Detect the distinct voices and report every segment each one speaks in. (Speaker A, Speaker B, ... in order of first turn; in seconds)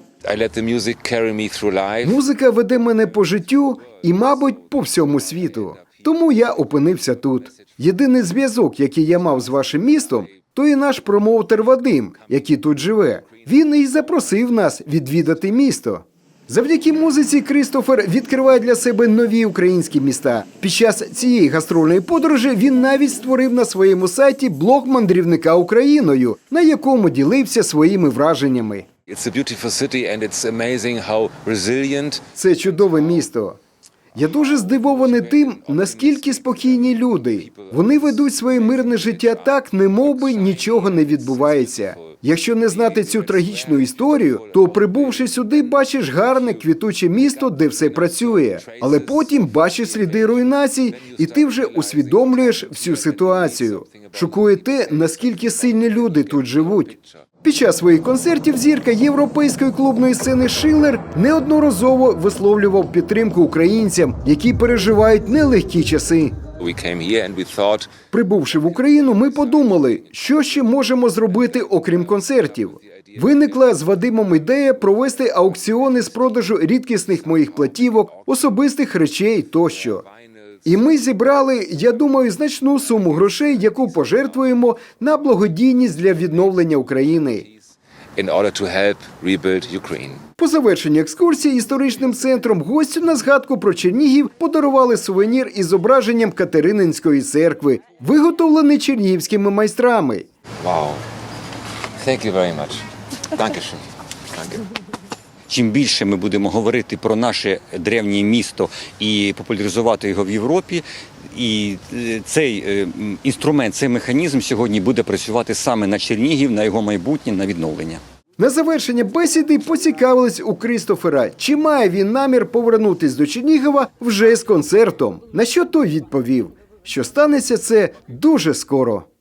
Speaker A: 0.2-2.2, 29.1-32.2, 34.2-42.1, 42.7-46.6, 47.2-57.0, 66.6-67.9, 88.2-90.2, 100.6-101.0, 102.0-104.6
Speaker B: 2.0-28.9, 32.3-33.6, 34.1-66.4, 68.1-80.0, 80.7-87.5, 90.4-100.2, 118.4-129.1
Speaker C: 105.5-118.0